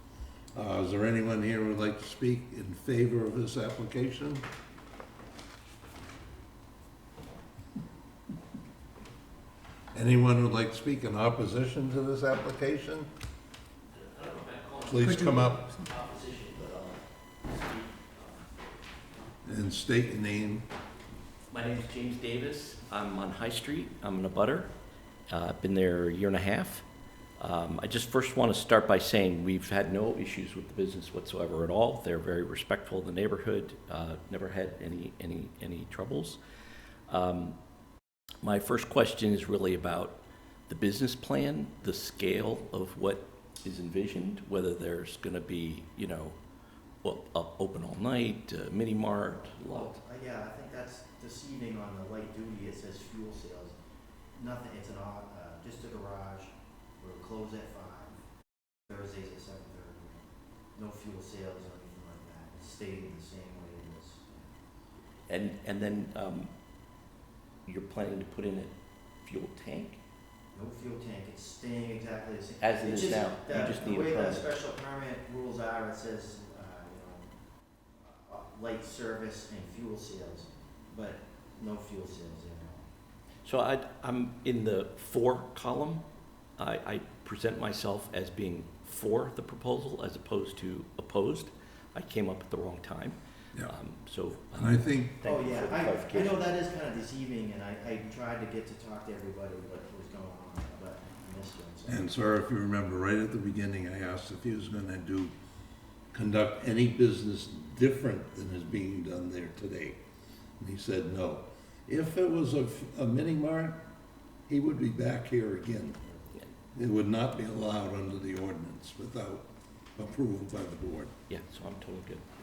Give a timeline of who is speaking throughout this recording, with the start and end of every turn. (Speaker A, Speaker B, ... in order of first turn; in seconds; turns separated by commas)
Speaker A: 0.5-4.5, Speaker A: 9.9-13.1, Speaker B: 13.9-18.5, Speaker A: 14.8-15.8, Speaker A: 19.4-20.7, Speaker B: 21.5-24.7, Speaker B: 25.3-26.8, Speaker B: 27.4-36.4, Speaker B: 37.1-37.6, Speaker B: 38.4-46.4, Speaker B: 47.0-50.0, Speaker C: 49.6-53.8, Speaker C: 54.3-58.2, Speaker C: 58.9-64.5, Speaker B: 65.3-66.5, Speaker B: 67.7-70.0, Speaker C: 70.5-77.3, Speaker B: 72.6-74.5, Speaker C: 78.0-82.9, Speaker B: 83.5-86.0, Speaker B: 86.6-96.5, Speaker A: 94.6-95.2, Speaker C: 95.2-102.1, Speaker A: 101.9-105.3, Speaker A: 106.1-110.0, Speaker A: 110.6-113.8, Speaker A: 114.5-116.0, Speaker A: 116.7-121.1, Speaker B: 121.3-122.2